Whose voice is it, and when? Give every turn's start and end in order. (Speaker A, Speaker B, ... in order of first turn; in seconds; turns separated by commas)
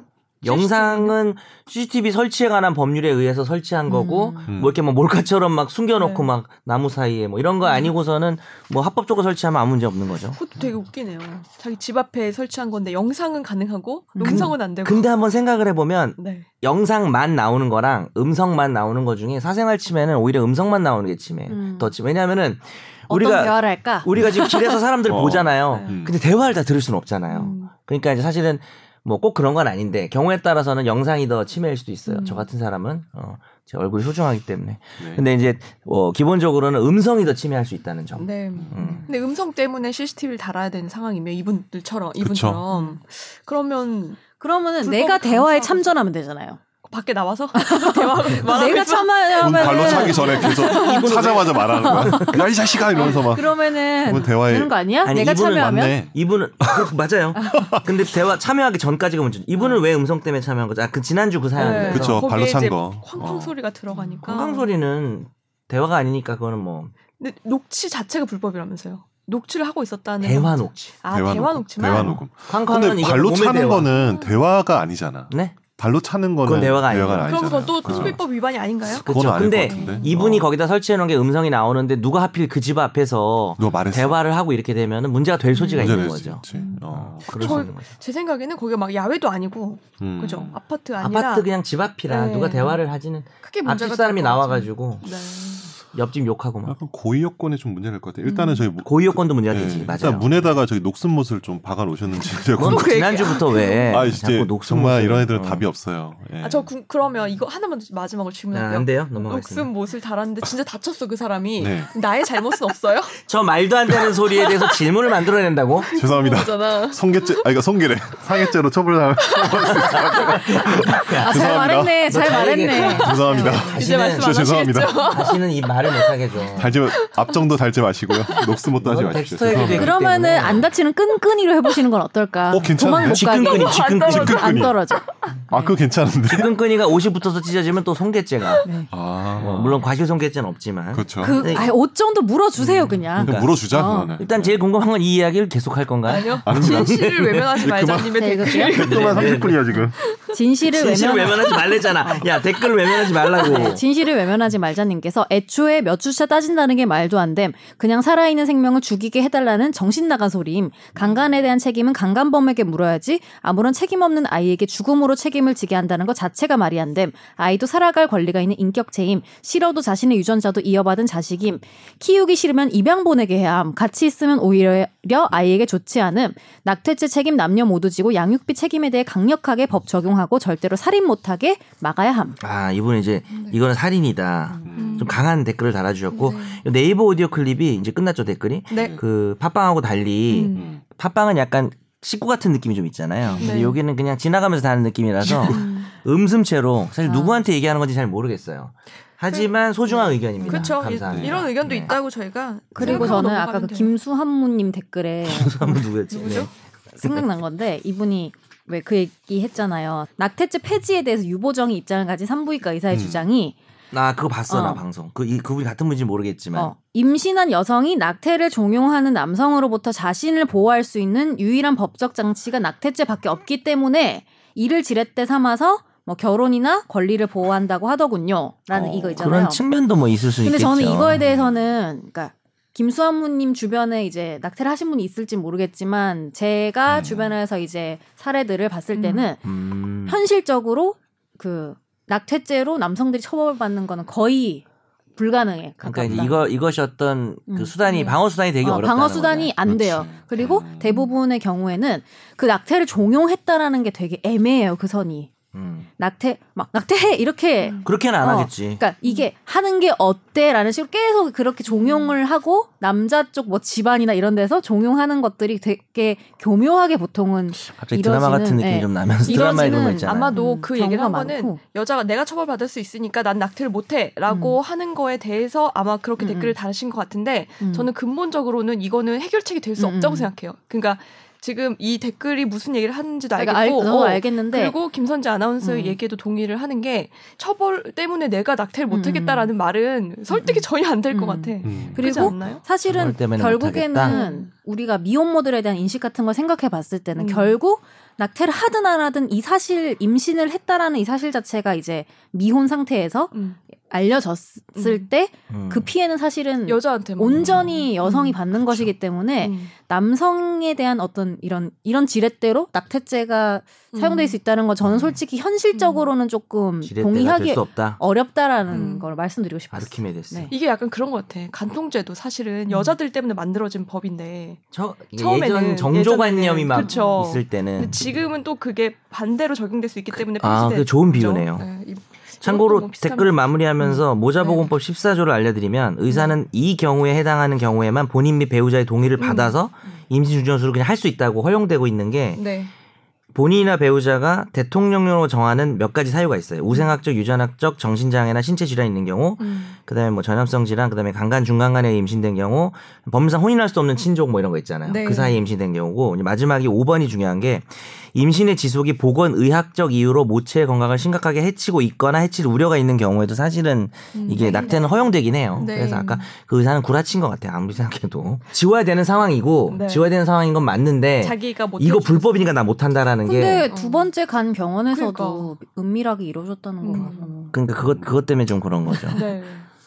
Speaker A: 0.4-10.4, Speaker B: 0.4-1.1, Speaker C: 3.9-4.5, Speaker D: 4.5-4.8, Speaker B: 6.0-6.3, Speaker B: 10.3-15.1, Speaker C: 14.1-14.5, Speaker A: 14.2-39.1, Speaker B: 16.2-16.5, Speaker C: 21.5-21.9, Speaker C: 23.1-24.7, Speaker D: 25.0-26.2, Speaker B: 25.7-26.0, Speaker B: 27.3-27.7, Speaker B: 32.0-32.5, Speaker D: 35.0-35.2, Speaker B: 38.2-44.3, Speaker D: 38.6-39.0, Speaker D: 42.2-42.6, Speaker C: 42.7-43.0, Speaker C: 44.4-46.6, Speaker B: 44.8-45.9, Speaker B: 46.8-51.9, Speaker C: 47.5-51.0, Speaker D: 49.4-56.9, Speaker A: 50.6-52.5, Speaker C: 51.8-52.4, Speaker B: 52.9-53.3, Speaker C: 52.9-56.0, Speaker A: 55.0-62.3, Speaker D: 57.5-57.9, Speaker B: 61.5-64.7, Speaker D: 61.6-63.5, Speaker A: 64.2-66.9, Speaker B: 67.2-72.2, Speaker A: 70.2-70.9, Speaker D: 71.1-78.2, Speaker A: 71.9-73.9, Speaker B: 73.9-74.4, Speaker A: 75.3-75.6, Speaker A: 76.4-78.2, Speaker B: 77.2-80.2, Speaker D: 78.9-80.5, Speaker A: 78.9-87.9, Speaker D: 83.6-84.2, Speaker B: 85.5-91.5, Speaker D: 85.8-87.7, Speaker D: 90.0-90.6, Speaker A: 91.0-95.2, Speaker B: 92.1-92.8, Speaker B: 93.4-95.7, Speaker A: 95.9-96.8, Speaker D: 96.7-106.7, Speaker B: 98.2-98.7, Speaker A: 98.8-100.5, Speaker B: 102.5-104.1, Speaker A: 102.5-105.7, Speaker B: 106.4-113.2, Speaker A: 108.5-109.7, Speaker D: 111.6-111.9, Speaker A: 113.2-115.9, Speaker B: 113.9-114.8, Speaker B: 115.8-117.4, Speaker D: 115.9-122.0, Speaker B: 119.3-120.4, Speaker A: 119.9-124.4, Speaker C: 121.1-123.6, Speaker B: 122.7-127.4, Speaker D: 122.8-125.2, Speaker A: 125.0-126.8, Speaker D: 126.5-129.9, Speaker B: 128.1-128.6, Speaker A: 128.8-130.7, Speaker C: 129.6-135.7, Speaker D: 132.5-134.8, Speaker A: 132.8-134.6, Speaker B: 133.3-135.3, Speaker D: 135.5-136.6, Speaker A: 136.3-138.7, Speaker C: 138.6-138.9, Speaker D: 138.9-139.9, Speaker A: 139.3-141.7, Speaker D: 140.9-141.4, Speaker C: 141.2-144.1, Speaker D: 142.6-144.6, Speaker A: 143.2-143.6, Speaker A: 144.2-147.7, Speaker B: 146.1-150.3, Speaker D: 146.4-149.9, Speaker C: 148.2-148.8, Speaker A: 148.7-149.8, Speaker C: 150.3-152.3, Speaker A: 150.6-153.8, Speaker B: 151.2-151.9, Speaker B: 152.4-153.7, Speaker C: 153.4-182.4, Speaker A: 182.4-201.9, Speaker B: 183.3-183.6, Speaker D: 184.6-185.2, Speaker B: 184.7-185.2, Speaker B: 186.1-186.6, Speaker B: 188.7-189.0, Speaker D: 188.7-189.0, Speaker B: 190.3-190.7, Speaker D: 190.5-190.8, Speaker B: 193.4-193.8, Speaker D: 195.2-195.5, Speaker B: 195.3-195.9, Speaker C: 197.0-197.4, Speaker B: 199.3-203.9, Speaker C: 200.4-200.8, Speaker D: 201.0-201.6, Speaker C: 202.7-205.8, Speaker A: 202.8-203.1, Speaker A: 205.2-207.3, Speaker B: 206.1-206.5, Speaker C: 206.9-213.5, Speaker D: 212.9-213.3, Speaker A: 213.9-216.7, Speaker C: 214.5-214.8, Speaker C: 216.5-229.6, Speaker D: 228.7-229.2, Speaker A: 229.2-231.2, Speaker C: 230.4-239.4, Speaker D: 231.1-231.5, Speaker D: 236.9-237.3, Speaker B: 238.9-239.2, Speaker A: 239.4-240.2, Speaker C: 240.1-244.6, Speaker C: 245.2-246.4, Speaker A: 245.8-249.6, Speaker C: 247.5-247.7, Speaker B: 247.8-248.2, Speaker C: 248.6-255.3, Speaker D: 249.7-251.0, Speaker A: 255.5-255.9, Speaker C: 256.0-271.6, Speaker B: 257.6-257.9, Speaker A: 257.8-258.8, Speaker B: 261.7-262.1, Speaker A: 267.7-270.4, Speaker B: 269.2-292.6, Speaker C: 274.3-274.6, Speaker C: 276.2-276.6, Speaker C: 277.6-277.9, Speaker C: 279.8-280.3, Speaker C: 283.4-284.7, Speaker C: 285.6-286.0, Speaker C: 288.9-289.5, Speaker C: 290.3-303.3, Speaker D: 291.6-292.3, Speaker A: 292.8-294.2, Speaker B: 294.0-294.5, Speaker B: 297.1-297.6, Speaker B: 303.3-303.6, Speaker C: 303.9-320.5, Speaker B: 304.7-305.1, Speaker A: 305.5-305.9, Speaker B: 306.6-308.4, Speaker D: 307.3-307.7, Speaker B: 309.4-309.7, Speaker B: 313.9-314.4, Speaker B: 315.7-316.1, Speaker A: 316.8-318.0, Speaker B: 318.7-319.1, Speaker A: 319.7-320.5, Speaker B: 320.5-324.6, Speaker C: 322.7-322.9, Speaker A: 324.7-328.0, Speaker B: 325.1-334.7, Speaker C: 326.8-327.2, Speaker A: 330.1-331.7, Speaker A: 332.4-342.5, Speaker B: 336.1-336.4, Speaker B: 339.2-339.6, Speaker B: 342.3-342.7, Speaker A: 343.3-373.7, Speaker B: 349.4-349.8, Speaker B: 354.9-355.4, Speaker B: 364.1-366.3, Speaker C: 364.4-365.0, Speaker B: 369.7-370.1, Speaker B: 371.2-372.5, Speaker C: 373.2-377.6, Speaker B: 373.7-374.1, Speaker B: 374.9-375.5, Speaker B: 376.8-377.3, Speaker A: 377.5-379.2, Speaker D: 377.8-378.1, Speaker C: 378.9-379.2, Speaker B: 379.1-379.7